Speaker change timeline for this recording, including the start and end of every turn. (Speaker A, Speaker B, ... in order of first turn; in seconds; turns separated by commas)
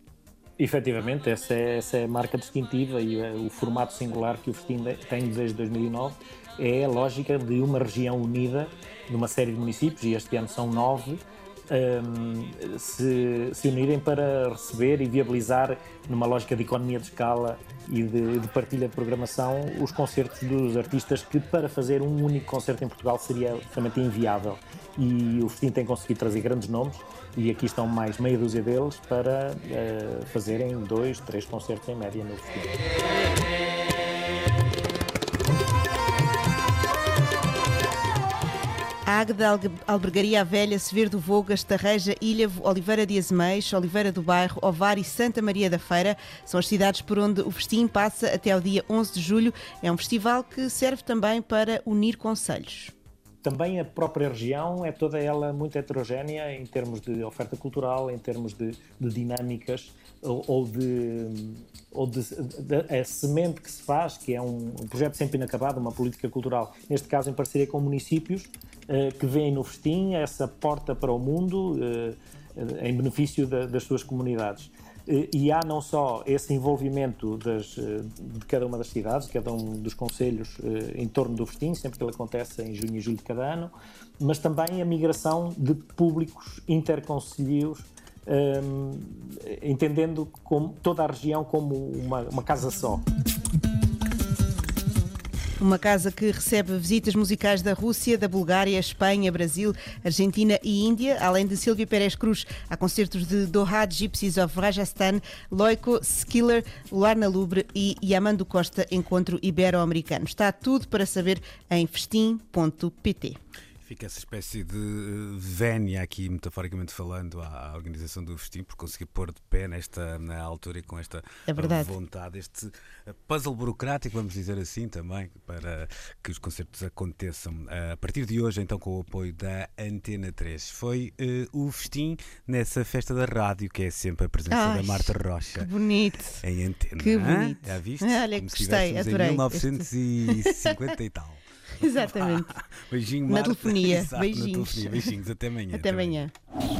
Speaker A: 0.6-32.8, Speaker B: 39.0-52.9, Speaker A: 53.4-93.0, Speaker B: 95.6-113.4, Speaker C: 113.8-135.7, Speaker B: 121.5-121.9, Speaker B: 134.5-136.4, Speaker C: 136.4-146.2, Speaker B: 137.0-140.7, Speaker B: 141.8-142.5, Speaker B: 143.3-145.1, Speaker B: 145.7-146.3